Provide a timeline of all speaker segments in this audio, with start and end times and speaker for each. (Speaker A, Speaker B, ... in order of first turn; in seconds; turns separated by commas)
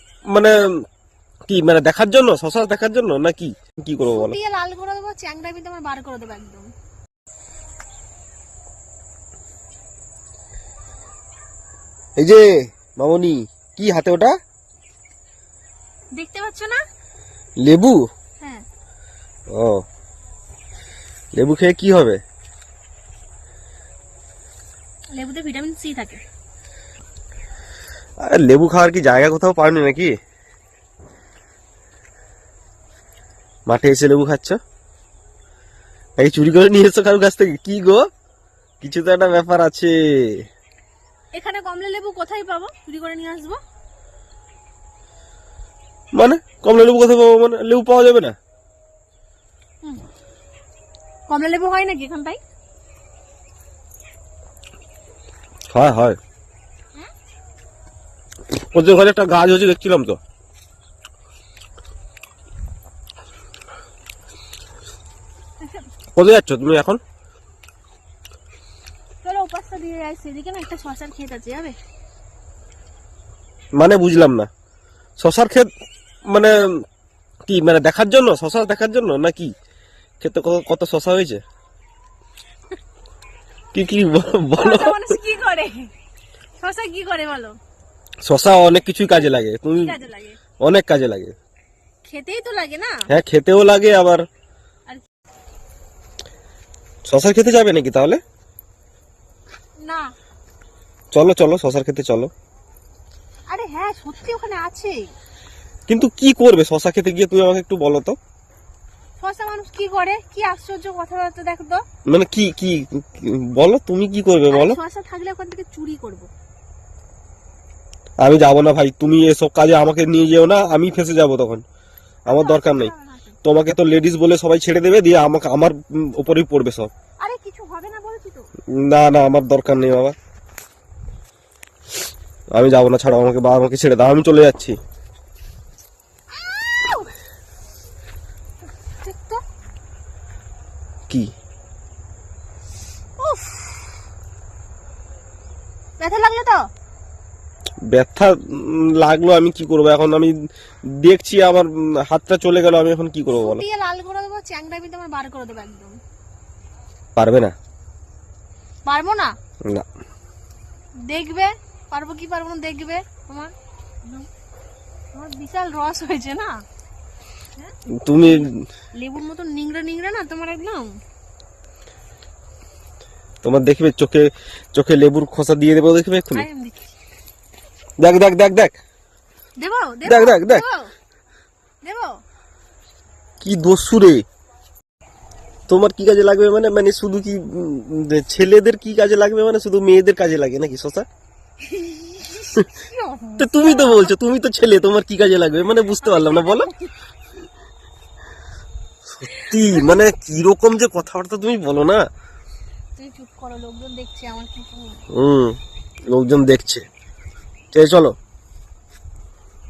Speaker A: 0.3-0.8, Speaker A: 1.5-4.3, Speaker B: 4.1-6.7, Speaker A: 12.2-14.3, Speaker B: 16.1-16.8, Speaker A: 17.6-18.1, Speaker A: 19.5-19.8, Speaker A: 21.4-22.2, Speaker B: 25.1-26.2, Speaker A: 28.2-30.1, Speaker A: 33.7-34.6, Speaker A: 36.2-38.1, Speaker A: 38.8-40.4, Speaker B: 41.3-43.6, Speaker A: 46.1-48.4, Speaker B: 51.3-52.4, Speaker A: 55.7-56.2, Speaker A: 58.6-60.2, Speaker A: 66.2-67.0, Speaker B: 69.2-71.8, Speaker A: 73.8-74.5, Speaker A: 75.2-75.7, Speaker A: 76.3-76.8, Speaker A: 77.5-79.5, Speaker A: 80.2-81.4, Speaker A: 83.7-85.1, Speaker B: 84.6-85.9, Speaker B: 86.6-87.6, Speaker A: 88.3-90.0, Speaker B: 89.7-90.4, Speaker A: 90.6-91.3, Speaker B: 92.0-93.0, Speaker A: 93.1-94.2, Speaker A: 97.1-98.2, Speaker B: 99.8-100.1, Speaker A: 101.1-102.3, Speaker B: 103.5-105.0, Speaker A: 105.9-108.2, Speaker B: 109.2-111.8, Speaker A: 112.1-114.8, Speaker B: 114.5-116.3, Speaker A: 118.2-121.6, Speaker A: 122.3-122.9, Speaker B: 122.3-123.4, Speaker A: 123.4-126.9, Speaker B: 127.2-128.5, Speaker A: 128.8-130.2, Speaker A: 132.5-134.8, Speaker B: 136.3-137.1, Speaker B: 139.0-139.4, Speaker B: 143.2-144.0, Speaker B: 146.0-146.6, Speaker A: 147.9-150.3, Speaker A: 150.9-153.6, Speaker B: 153.3-156.0, Speaker A: 157.2-157.5, Speaker B: 158.8-159.3, Speaker B: 161.1-164.3, Speaker B: 165.1-166.5, Speaker B: 167.6-171.0, Speaker A: 167.9-168.7, Speaker A: 173.4-176.5, Speaker B: 176.3-177.0, Speaker A: 178.0-178.8, Speaker B: 179.6-180.9, Speaker A: 180.1-180.6, Speaker B: 181.8-182.2, Speaker A: 183.4-184.2, Speaker A: 185.7-191.1, Speaker B: 191.6-194.1, Speaker A: 193.4-196.7, Speaker B: 196.0-196.9, Speaker A: 199.2-202.1, Speaker B: 199.3-200.0, Speaker B: 203.0-205.1, Speaker A: 205.1-206.8, Speaker A: 207.7-208.2